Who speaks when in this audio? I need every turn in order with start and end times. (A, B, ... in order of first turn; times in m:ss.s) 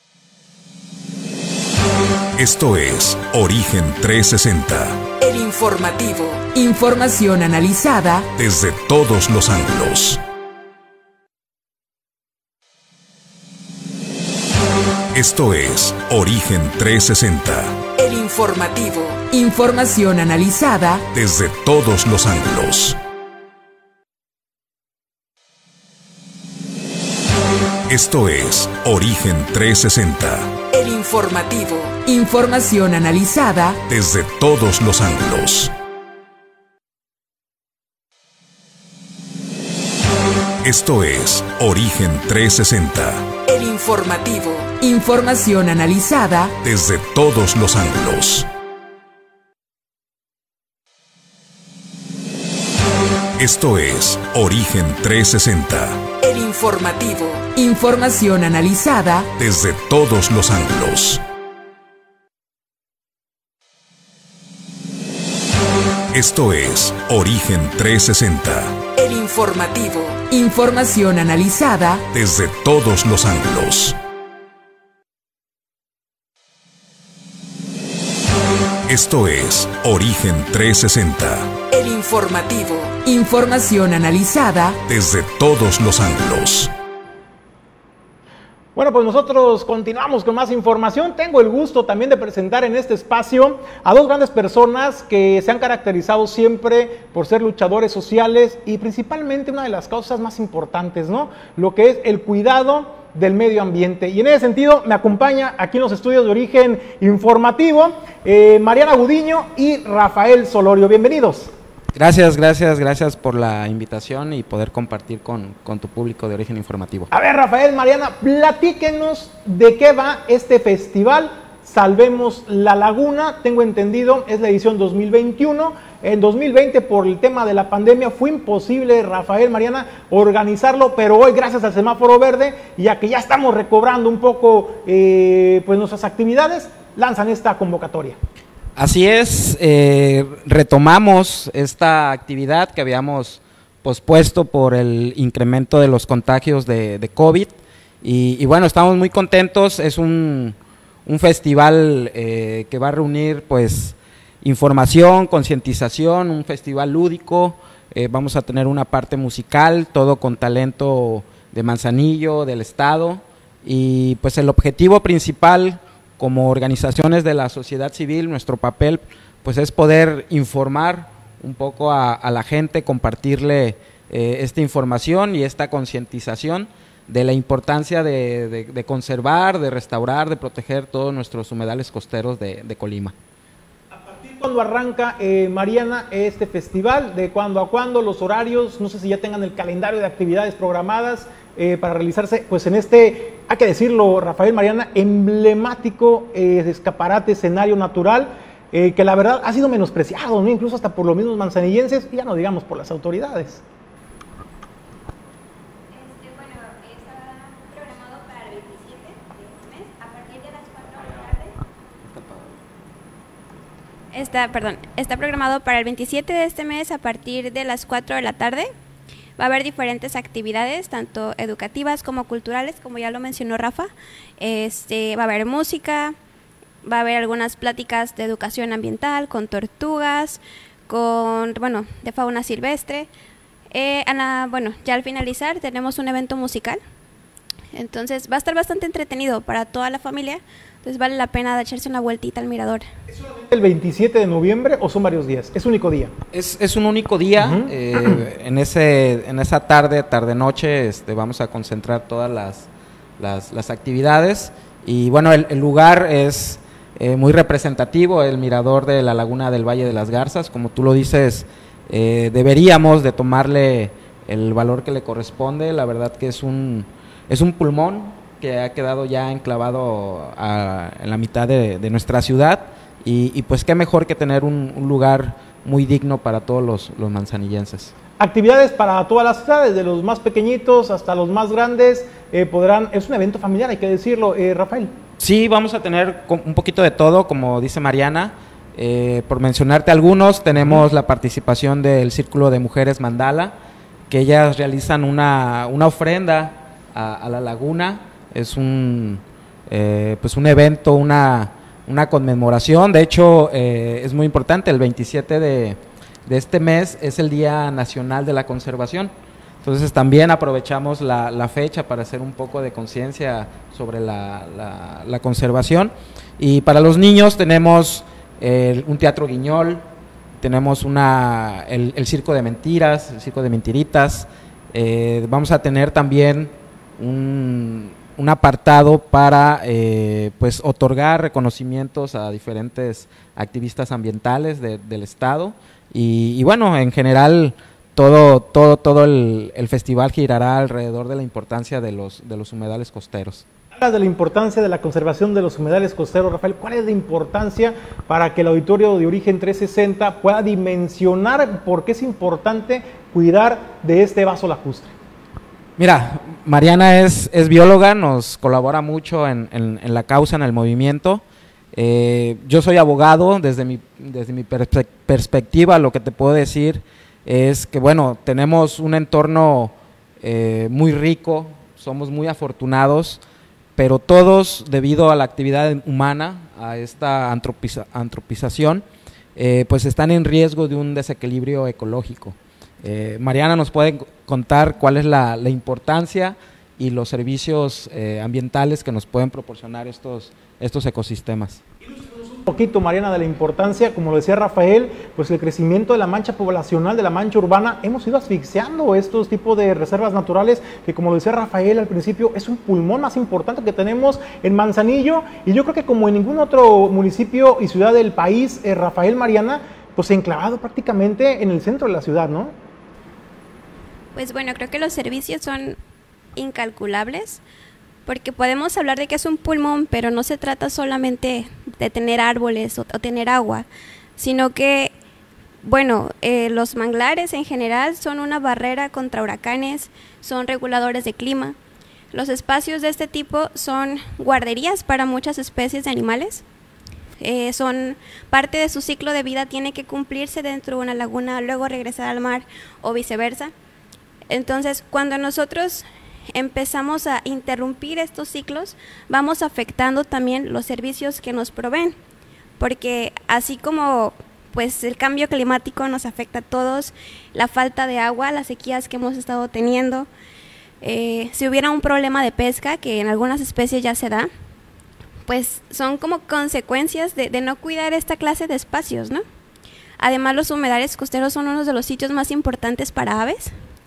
0:02.4-0:05.1 A
0:05.2-0:08.3 B
0:08.3-0:10.2 A
0:15.1-0:17.9 A
0:18.0-0:21.0 B
0:21.1-0:23.0 A
0:27.9-0:30.6 A
0:30.7-0:33.8 B
0:33.9-0:35.7 A
0:40.6-0:43.4 A
0:43.5-0:46.5 B
0:46.6-0:48.5 A
0:53.4-0:56.1 A
0:56.2-0:59.3 B
0:59.4-1:01.2 A
1:06.1-1:08.8 A
1:09.0-1:12.0 B
1:12.1-1:14.0 A
1:18.9-1:21.6 A
1:21.7-1:24.8 B
1:24.8-1:26.7 A
1:28.8-1:51.5 C
1:52.0-1:57.1 D
1:57.1-2:18.2 C
2:18.8-2:30.6 D
2:31.1-3:03.1 D
3:03.9-3:23.6 C
3:25.9-3:31.5 E
3:32.1-3:32.5 D
3:34.1-3:38.7 E
3:39.4-3:46.2 E
3:46.8-3:53.1 E
3:53.7-3:56.8 E
3:57.7-4:02.9 E
4:03.1-4:06.1 C
4:06.3-4:12.7 D
4:07.4-4:08.2 C
4:13.2-4:37.9 D
4:38.2-4:44.9 C
4:45.2-4:53.5 D
4:50.6-4:50.8 C
4:54.1-5:09.1 D
5:09.6-5:19.8 D
5:20.4-5:43.4 D
5:43.7-5:54.9 C
5:55.8-6:01.2 D
6:01.7-6:13.2 D
6:13.8-6:18.8 D
6:19.4-6:31.6 D
6:31.9-6:52.5 C
6:54.2-6:55.8 E
6:56.4-6:57.4 E
6:58.1-7:03.7 E
7:04.2-7:04.9 E
7:05.6-7:11.6 E
7:12.1-7:16.4 E
7:17.2-7:23.5 E
7:24.3-7:32.0 E
7:32.6-7:40.1 E
7:40.8-7:44.3 E
7:45.3-7:49.2 E
7:50.0-7:53.5 E